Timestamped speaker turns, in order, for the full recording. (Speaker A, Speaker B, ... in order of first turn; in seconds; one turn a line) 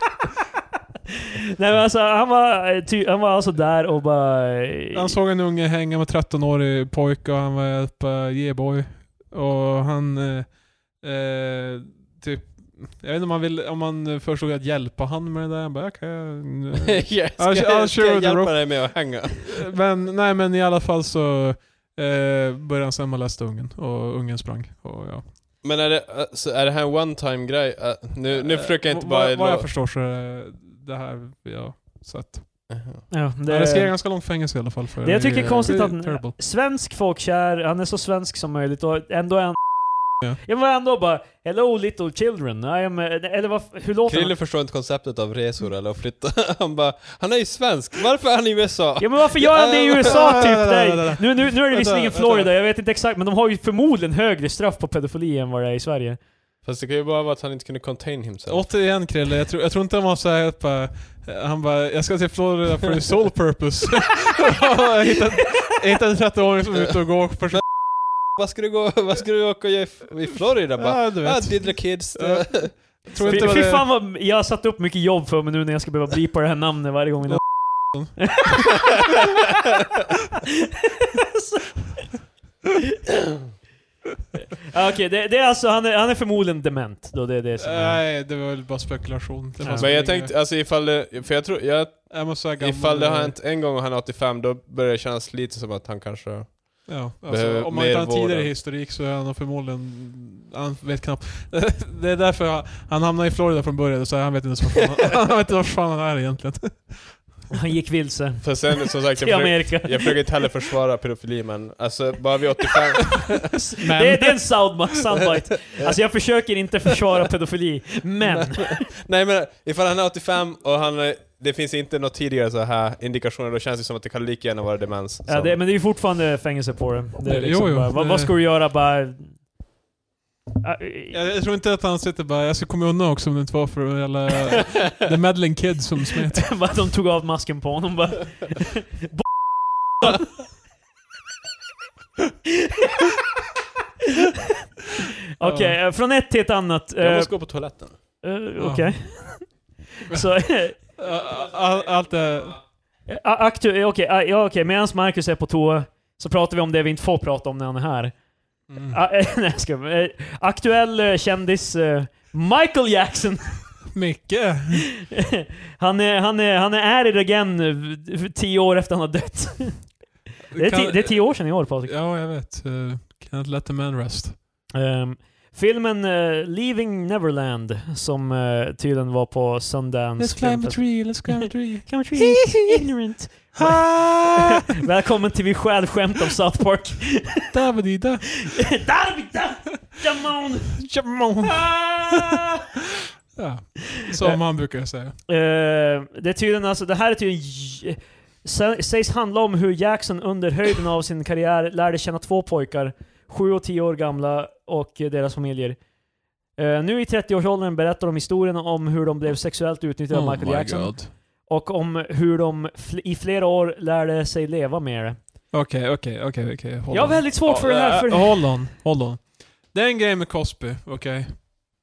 Speaker A: 1.6-5.2
Speaker B: 4.9-25.3
Speaker C: 16.8-19.6
Speaker C: 25.6-29.7
Speaker B: 28.3-36.4
Speaker C: 32.7-33.1
Speaker A: 33.1-34.1
Speaker A: 35.0-44.4
Speaker C: 35.3-35.8
Speaker C: 44.1-50.2
Speaker A: 49.0-56.2
Speaker B: 50.0-52.5
Speaker C: 56.6-58.7
Speaker B: 58.5-67.6
Speaker C: 67.5-73.6
Speaker B: 70.8-73.9
Speaker A: 73.2-78.7
Speaker B: 77.3-78.4
Speaker A: 81.1-82.1
Speaker A: 84.7-88.0
Speaker B: 87.6-90.3
Speaker A: 89.6-89.9
Speaker C: 89.8-98.5
Speaker B: 92.1-93.4
Speaker B: 96.9-107.2
Speaker A: 107.5-110.4
Speaker C: 108.4-113.5
Speaker A: 113.5-118.8
Speaker B: 113.8-114.7
Speaker C: 118.2-125.6
Speaker A: 125.3-129.4
Speaker B: 127.2-128.3
Speaker A: 130.6-131.2
Speaker B: 131.1-136.7
Speaker A: 136.3-139.3
Speaker A: 140.0-140.3
Speaker A: 145.4-150.8
Speaker B: 145.4-145.8
Speaker C: 147.0-148.0
Speaker B: 148.6-149.5
Speaker B: 150.1-152.6
Speaker A: 153.1-163.8
Speaker B: 158.7-159.0
Speaker B: 163.9-164.9
Speaker A: 165.0-171.9
Speaker B: 170.5-174.4
Speaker A: 174.7-187.5
Speaker B: 180.2-182.8
Speaker B: 183.5-184.6
Speaker B: 187.5-188.7
Speaker A: 188.4-190.8
Speaker B: 190.8-192.4
Speaker A: 191.4-192.5
Speaker B: 193.3-195.2
Speaker A: 194.2-194.6
Speaker A: 195.3-205.8
Speaker A: 206.5-215.2
Speaker B: 210.1-211.1
Speaker B: 215.5-221.5
Speaker A: 216.9-218.7